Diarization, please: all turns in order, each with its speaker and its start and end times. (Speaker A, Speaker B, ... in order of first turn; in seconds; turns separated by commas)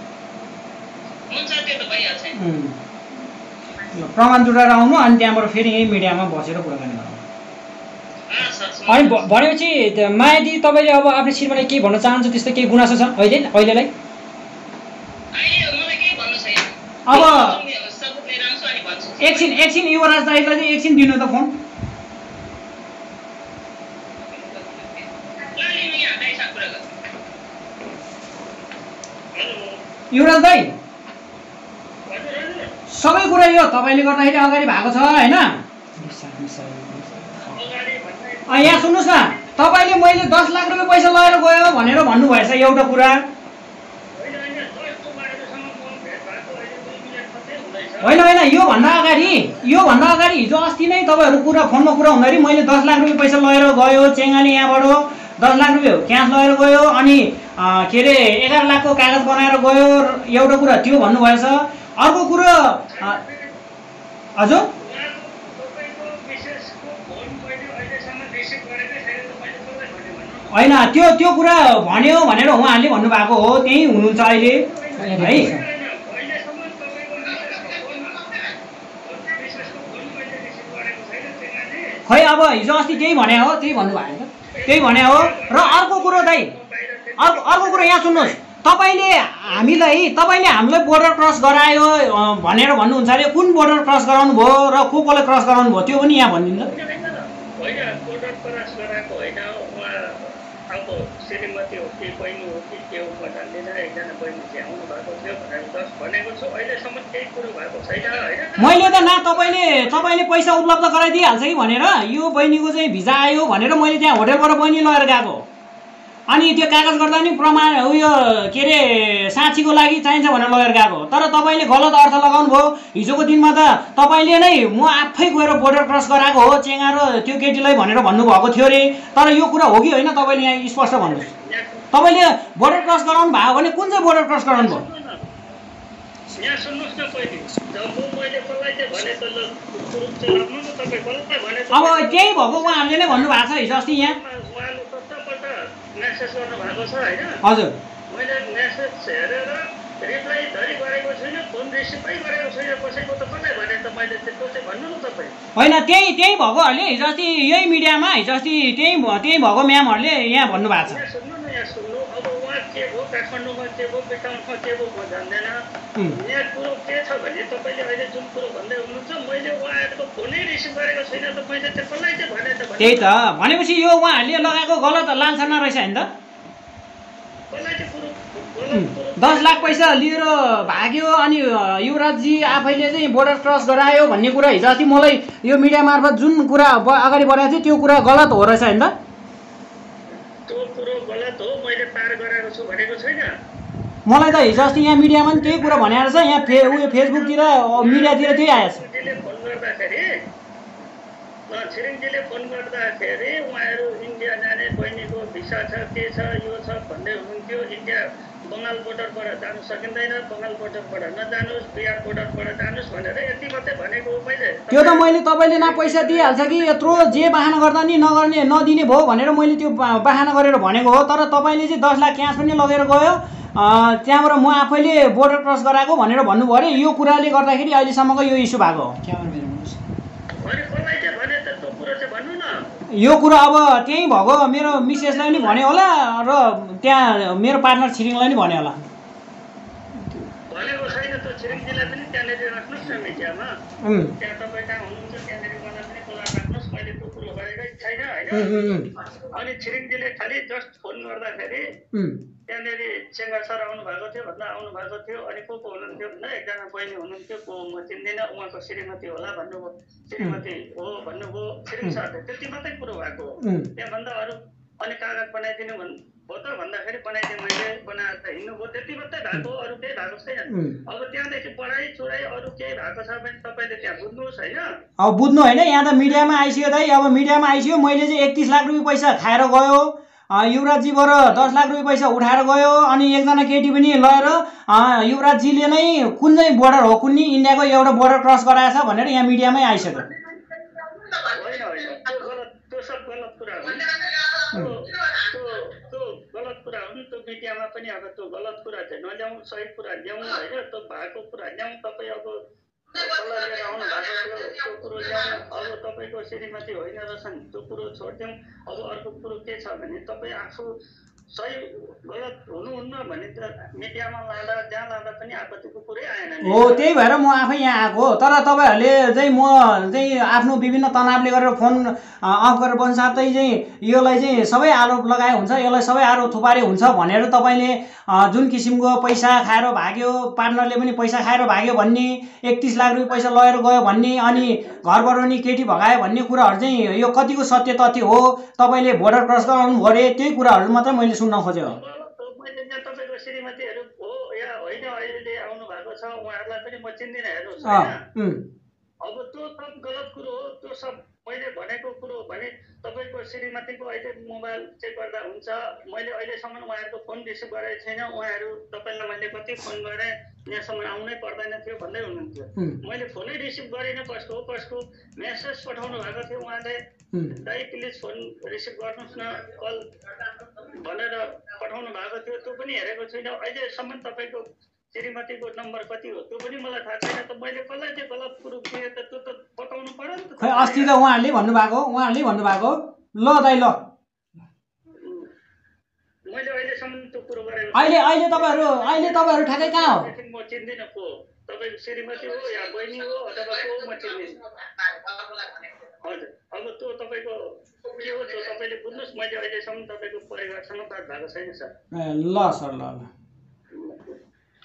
Speaker A: 1.3-2.3, Speaker B: 2.3-2.8, Speaker B: 3.9-7.2, Speaker A: 8.3-9.2, Speaker C: 8.9-13.9, Speaker A: 15.3-19.6, Speaker B: 17.1-17.6, Speaker B: 19.2-21.6, Speaker A: 24.3-26.8, Speaker D: 29.3-29.8, Speaker B: 30.1-30.7, Speaker D: 32.1-32.7, Speaker B: 32.9-35.6, Speaker C: 36.0-37.6, Speaker D: 37.5-41.4, Speaker B: 38.5-43.2, Speaker D: 44.1-48.2, Speaker B: 48.0-63.2, Speaker D: 48.8-49.6, Speaker D: 62.9-63.6, Speaker B: 64.4-64.7, Speaker D: 64.8-70.7, Speaker B: 70.5-74.6, Speaker D: 74.1-78.3, Speaker C: 74.9-75.6, Speaker B: 75.2-75.5, Speaker D: 79.0-83.4, Speaker B: 82.1-86.5, Speaker D: 84.5-88.4, Speaker B: 87.2-96.7, Speaker D: 89.5-89.9, Speaker D: 96.5-110.0, Speaker B: 108.6-115.4, Speaker B: 116.3-131.3, Speaker D: 130.9-132.0, Speaker B: 131.9-134.8, Speaker D: 132.6-132.9, Speaker D: 134.5-135.2, Speaker D: 136.3-147.4, Speaker B: 141.7-144.2, Speaker B: 147.4-147.8, Speaker D: 148.1-155.3, Speaker B: 155.6-161.0, Speaker D: 160.8-173.1, Speaker B: 172.8-176.1, Speaker D: 177.5-180.8, Speaker B: 178.7-188.9, Speaker D: 190.5-193.3, Speaker B: 194.1-198.8, Speaker D: 194.3-200.1, Speaker D: 201.5-217.3, Speaker B: 214.7-229.0, Speaker C: 229.0-229.8, Speaker D: 230.4-232.5, Speaker B: 232.9-238.8, Speaker D: 234.7-235.6, Speaker D: 240.5-243.5, Speaker B: 243.8-244.1, Speaker D: 244.2-248.6, Speaker B: 248.3-248.9, Speaker D: 249.3-251.6, Speaker D: 252.5-274.7, Speaker B: 263.4-263.7, Speaker B: 270.5-270.8, Speaker B: 275.0-290.1, Speaker D: 291.2-302.3, Speaker D: 302.9-310.7, Speaker D: 311.3-316.9, Speaker B: 316.4-341.8, Speaker D: 334.3-335.1, Speaker D: 341.6-348.0, Speaker B: 347.6-348.4, Speaker D: 349.0-366.8, Speaker D: 367.3-369.8, Speaker D: 370.6-380.9, Speaker B: 380.4-383.8, Speaker D: 385.0-385.3, Speaker D: 386.3-394.4, Speaker B: 387.7-390.1, Speaker D: 396.0-401.7, Speaker B: 401.9-403.1, Speaker D: 403.7-404.1